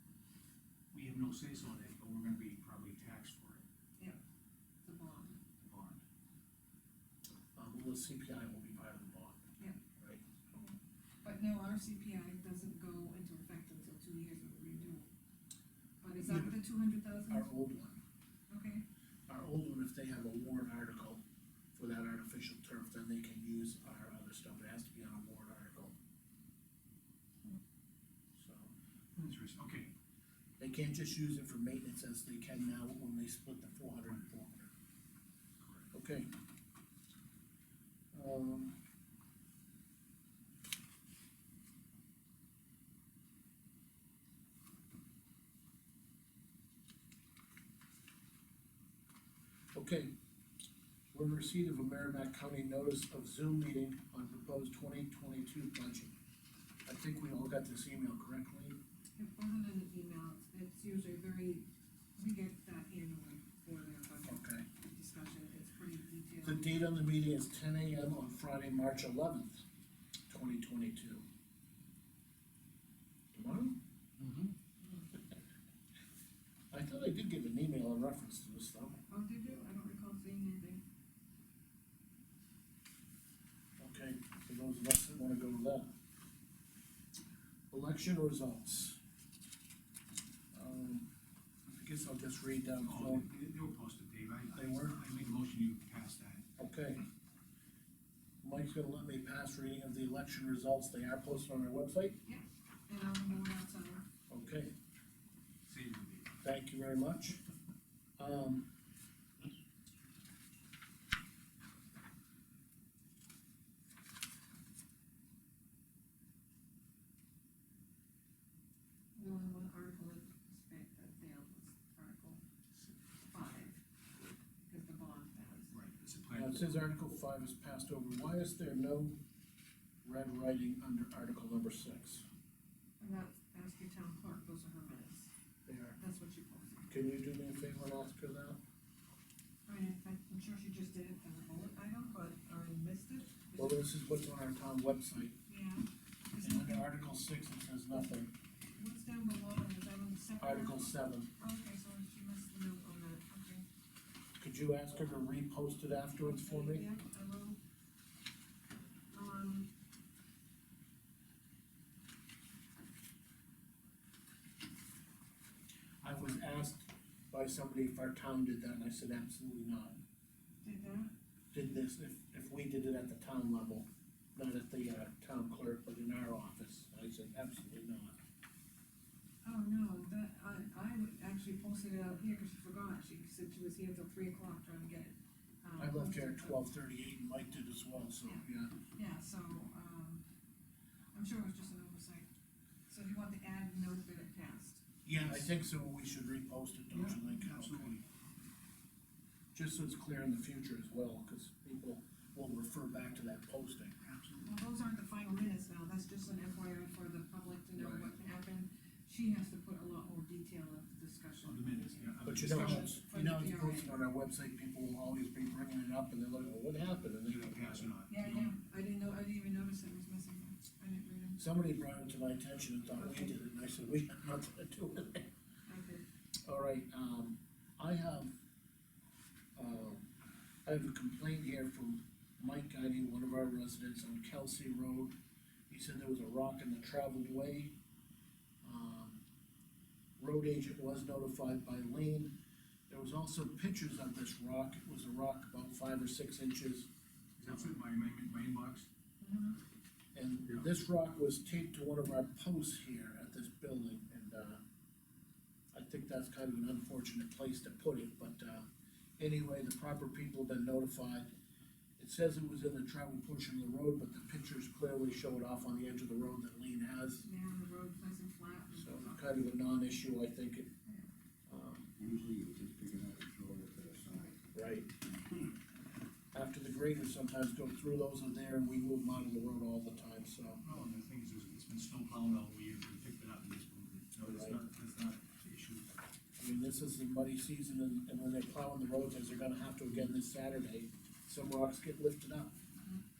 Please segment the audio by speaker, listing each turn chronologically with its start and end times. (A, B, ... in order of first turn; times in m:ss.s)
0:00.9-0:03.6 A
0:04.8-0:05.4 B
0:05.6-0:06.0 A
0:07.6-0:09.4 C
0:10.0-0:10.2 C
0:10.5-0:15.1 B
0:16.0-0:17.5 B
0:16.2-0:16.6 C
0:17.3-0:18.0 C
0:18.5-0:18.8 B
0:19.3-0:21.2 C
0:21.7-0:25.9 C
0:28.4-0:28.7 C
0:29.1-0:29.9 A
0:30.6-0:34.7 C
0:35.6-0:35.9 A
0:35.9-0:36.3 C
0:38.1-0:38.8 C
0:49.7-0:50.1 C
0:51.1-0:56.1 C
0:56.8-0:58.8 C
0:59.2-1:06.7 B
1:04.2-1:04.6 C
1:06.4-1:09.6 C
1:10.3-1:11.2 C
1:13.3-1:13.8 C
1:16.7-1:19.0 C
1:19.1-1:20.8 B
1:23.8-1:25.9 C
1:27.7-1:29.0 C
1:30.5-1:31.1 C
1:31.7-1:33.2 C
1:32.8-1:36.4 A
1:34.5-1:35.0 C
1:36.6-1:37.0 C
1:38.4-1:42.2 C
1:42.2-1:44.0 B
1:44.3-1:44.7 C
1:45.6-1:46.3 A
1:46.4-1:47.4 C
1:48.2-1:48.7 C
1:59.2-2:02.4 B
2:03.3-2:03.8 B
2:04.6-2:05.7 B
2:05.7-2:06.7 A
2:06.3-2:09.2 C
2:10.0-2:12.2 C
2:13.0-2:15.3 B
2:15.6-2:16.0 C
2:16.0-2:16.9 B
2:16.9-2:18.6 C
2:19.7-2:23.9 B
2:23.6-2:25.3 C
2:25.5-2:26.9 B
2:26.4-2:28.3 C
2:28.7-2:33.6 B
2:30.4-2:31.3 C
2:34.4-2:36.8 C
2:36.2-2:37.6 B
2:39.1-2:39.7 B
2:46.0-2:50.0 C
2:50.6-2:51.1 B
2:51.5-2:58.2 C
2:59.4-3:06.6 B
3:05.8-3:08.8 C
3:08.2-3:10.2 B
3:11.1-3:12.3 B
3:12.9-3:14.8 B
3:15.0-3:18.0 C
3:15.2-3:15.5 A
3:16.9-3:17.9 A
3:19.5-3:23.9 C
3:24.0-3:24.5 A
3:24.4-3:34.0 B
3:27.8-3:28.0 C
3:31.4-3:33.0 A
3:32.2-3:37.9 C
3:37.3-3:38.6 A
3:38.1-3:41.4 B
3:41.4-3:45.3 C
3:43.0-3:43.3 B
3:45.7-3:46.0 B
3:46.4-3:48.3 C
3:49.5-3:50.0 C
3:50.6-3:55.1 C
3:55.7-3:57.7 C
3:58.6-3:59.2 C
4:00.2-4:02.3 C
4:02.9-4:06.9 C
4:07.4-4:08.9 A
4:09.2-4:09.6 B
4:10.1-4:14.6 C
4:15.7-4:18.6 C
4:19.2-4:21.3 C
4:22.0-4:27.2 C
4:27.2-4:29.3 B
4:28.7-4:30.7 C
4:31.5-4:31.9 C
4:32.0-4:34.4 D
4:34.5-4:34.9 C
4:36.3-4:40.6 C
4:40.6-4:45.9 A
4:44.2-4:44.6 C
4:46.4-4:52.5 C